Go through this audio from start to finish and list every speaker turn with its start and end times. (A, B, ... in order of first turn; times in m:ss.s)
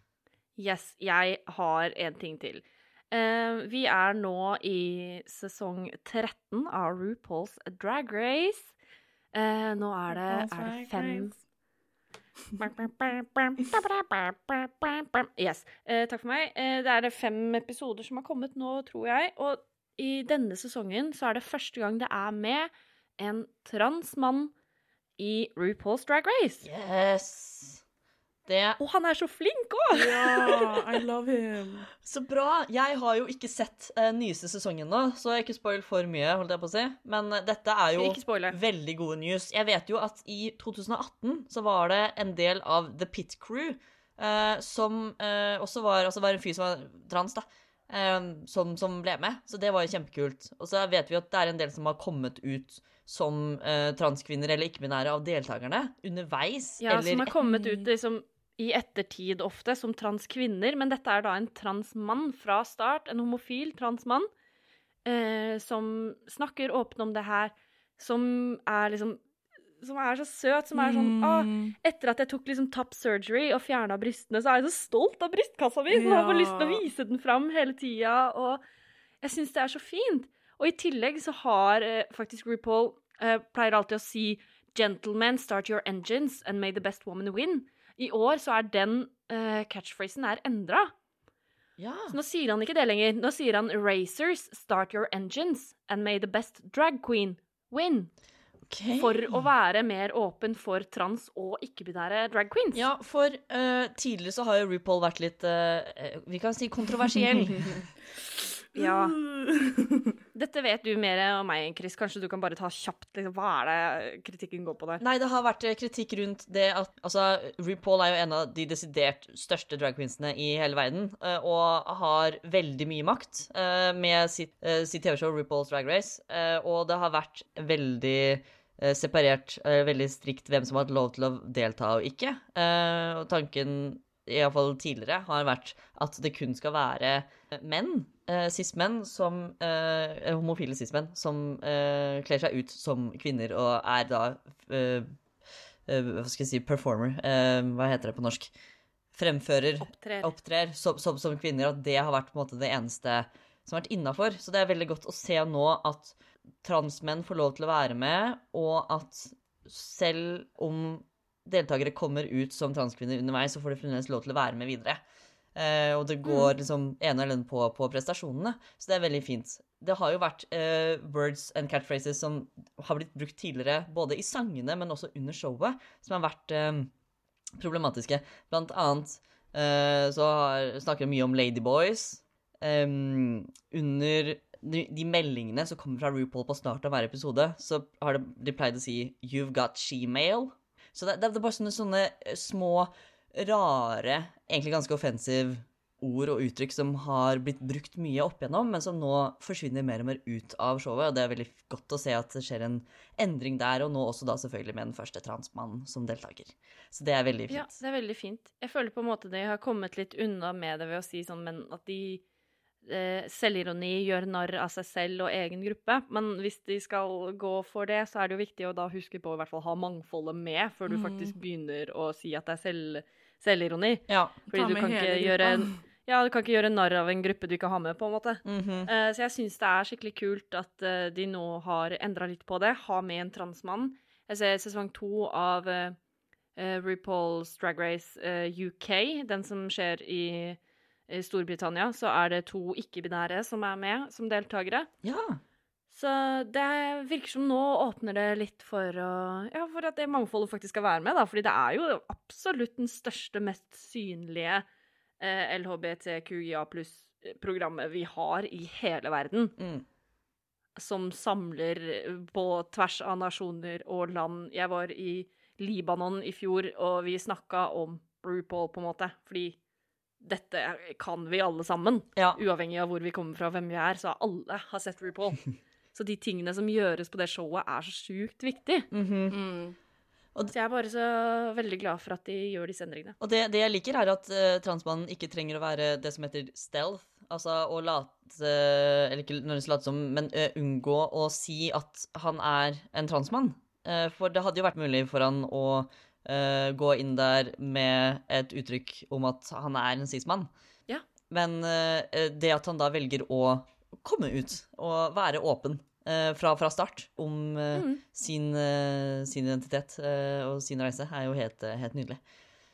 0:00.6-0:08.7 A
0:09.3-0:11.3 A
0:10.1-0:11.4 B
0:12.6-0:24.5 A
0:25.2-0:26.6 A
0:26.6-0:27.8 C
0:28.4-0:28.8 C
0:28.8-0:30.8 A
0:29.9-0:31.9 B
0:32.0-0:57.3 C
0:37.9-0:38.6 A
0:56.8-1:04.3 A
0:57.4-0:57.9 B
1:05.0-1:09.2 A
1:09.8-1:18.6 A
1:10.7-1:11.7 B
1:15.9-1:16.8 B
1:19.2-1:30.9 A
1:31.8-1:32.2 C
1:32.1-1:38.1 A
1:38.7-1:39.4 C
1:39.0-1:42.8 A
1:42.7-1:47.9 C
1:48.7-1:49.2 A
1:48.7-1:50.0 B
1:50.3-1:55.0 A
1:55.0-2:25.1 C
2:25.9-2:28.5 C
2:29.1-2:45.0 C
2:29.8-2:30.3 A
2:45.5-2:56.9 C
2:46.2-2:46.5 A
2:57.6-3:27.8 C
3:27.5-3:32.2 A
3:32.8-3:56.0 A
3:40.9-3:41.3 B
3:44.1-3:44.4 C
3:44.5-3:45.8 B
3:48.4-3:48.9 C
3:56.6-4:04.9 A
4:05.0-4:05.4 C
4:05.9-4:14.6 A
4:15.2-4:19.5 A
4:19.6-4:19.8 C
4:20.8-4:29.6 A
4:30.2-4:38.9 A
4:38.9-4:39.4 C
4:39.3-4:39.8 B
4:40.5-4:43.2 A
4:43.2-5:00.5 C
5:01.3-5:12.2 C
5:07.7-5:08.0 A